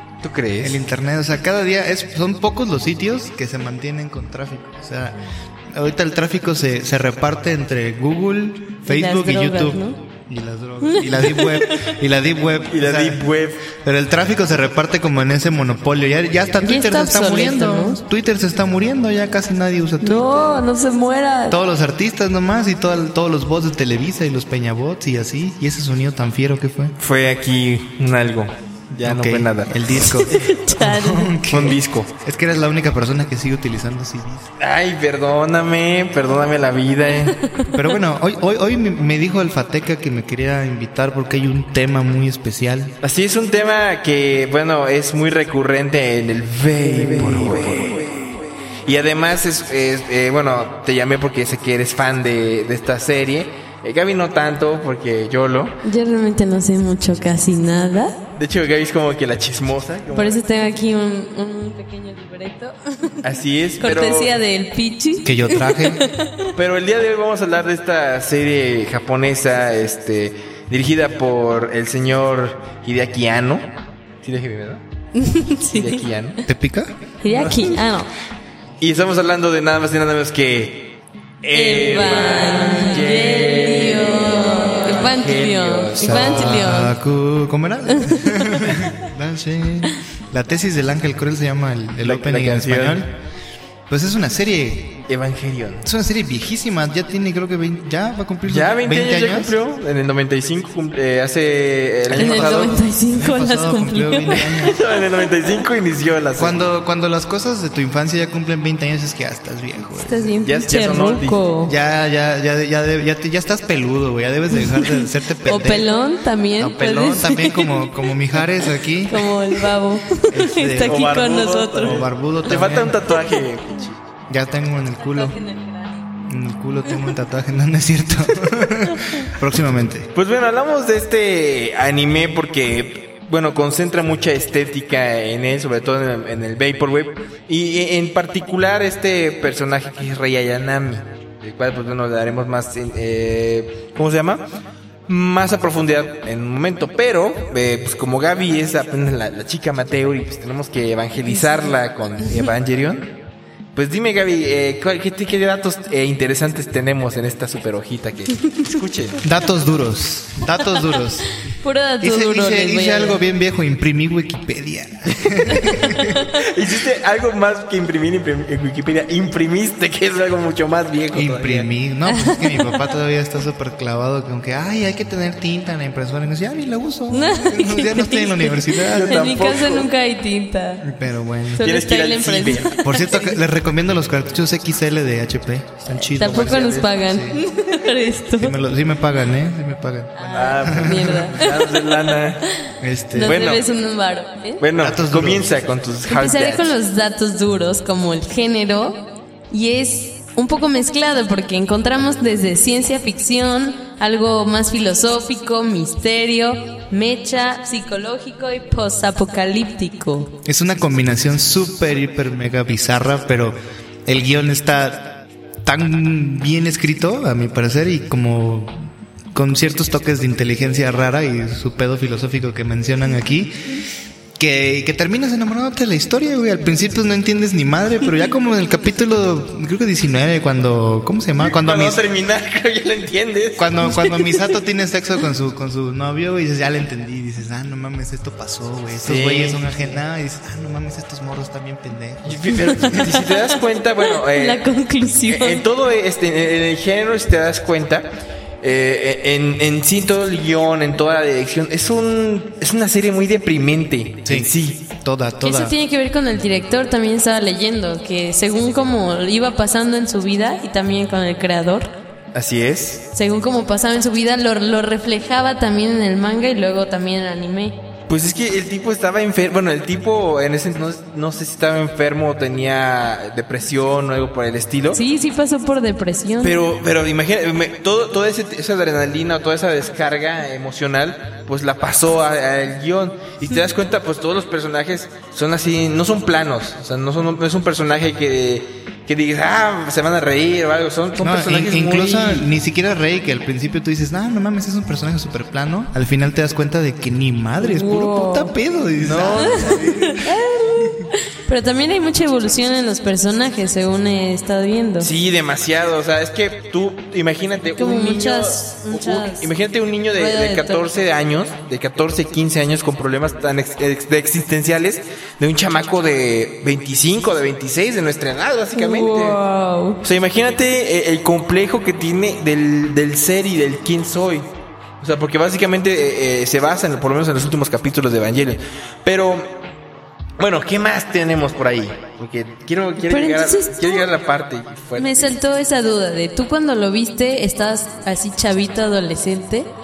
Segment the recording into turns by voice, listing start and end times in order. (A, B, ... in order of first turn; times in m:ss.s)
0:00.2-0:00.8 A
0:00.6-0:05.2 B
0:05.7-0:20.5 B
0:08.8-0:10.0 C
0:10.8-0:11.9 C
0:12.7-0:13.6 A
0:16.6-0:18.0 C
0:20.0-0:21.6 C
0:21.5-0:26.9 B
0:27.0-0:30.5 A
0:29.0-0:34.5 B
0:30.0-0:31.3 C
0:31.5-0:32.1 A
0:34.6-0:37.4 A
0:37.4-0:37.7 C
0:37.7-0:42.9 B
0:43.0-0:55.8 A
0:47.2-0:48.1 B
0:55.8-0:58.2 C
0:58.3-1:00.4 A
1:00.1-1:03.2 C
1:03.2-1:04.4 A
1:03.8-1:06.5 C
1:05.2-1:06.0 B
1:06.6-1:13.7 A
1:14.2-1:14.8 A
1:15.1-1:16.0 C
1:15.7-1:16.4 A
1:16.5-1:17.7 B
1:17.2-1:18.1 C
1:18.8-1:20.9 A
1:21.4-1:26.7 A
1:21.5-1:26.9 C
1:26.0-1:33.1 B
1:28.0-1:28.7 C
1:32.0-1:33.0 A
1:33.9-1:35.0 B
1:35.1-1:35.8 A
1:35.8-1:39.5 B
1:38.5-1:42.8 A
1:42.1-1:44.8 B
1:42.2-1:44.7 C
1:44.4-1:46.6 A
1:46.4-1:50.3 B
1:50.0-1:51.7 C
1:50.4-1:51.4 A
1:51.7-1:55.9 B
1:54.6-1:57.9 C
1:56.6-1:59.5 B
1:59.1-2:02.0 C
2:00.3-2:01.0 B
2:00.8-2:04.0 A
2:01.8-2:03.0 B
2:04.3-2:05.4 B
2:05.2-2:06.0 C
2:06.2-2:10.1 B
2:10.1-2:24.4 A
2:25.1-2:33.1 A
2:33.7-2:39.2 A
2:39.2-2:41.3 B
2:41.4-2:43.2 C
2:42.0-2:46.2 B
2:45.8-2:46.2 C
2:46.3-2:51.7 A
2:51.1-2:59.4 B
2:52.1-2:52.8 C
2:57.1-3:00.9 C
2:58.9-2:59.9 A
3:00.8-3:01.6 B
3:01.5-3:03.3 C
3:01.6-3:02.8 A
3:02.8-3:07.4 B
3:06.1-3:06.9 A
3:06.2-3:08.5 C
3:08.4-3:11.4 B
3:10.2-3:12.1 C
3:10.3-3:12.4 A
3:12.8-3:13.5 B
3:13.1-3:14.6 C
3:13.2-3:13.6 A
3:14.6-3:16.7 A
3:14.8-3:15.5 B
3:16.1-3:30.3 C
3:30.4-3:43.5 B
3:44.4-3:52.0 B
3:51.4-3:53.8 A
3:53.6-4:02.6 B
3:54.0-3:54.3 C
3:59.0-3:59.8 A
4:02.2-4:04.6 A
4:02.5-4:05.6 C
4:05.3-4:08.1 A
4:08.6-4:14.8 A
4:14.2-4:15.7 B
4:15.4-4:21.9 C
4:22.3-4:23.0 A
4:23.1-4:27.8 C
4:28.1-4:35.0 A
4:34.9-4:36.6 C
4:36.4-4:52.5 A
4:51.2-5:00.3 B
4:57.6-4:58.5 C
4:59.0-4:59.9 A
4:59.4-5:05.1 C
5:05.0-5:19.4 A
5:07.8-5:09.5 C
5:10.2-5:10.8 C
5:18.7-5:20.0 C
5:20.0-5:24.5 A
5:25.0-5:29.5 A
5:30.4-5:35.3 A
5:33.0-5:34.1 C
5:35.0-5:39.7 C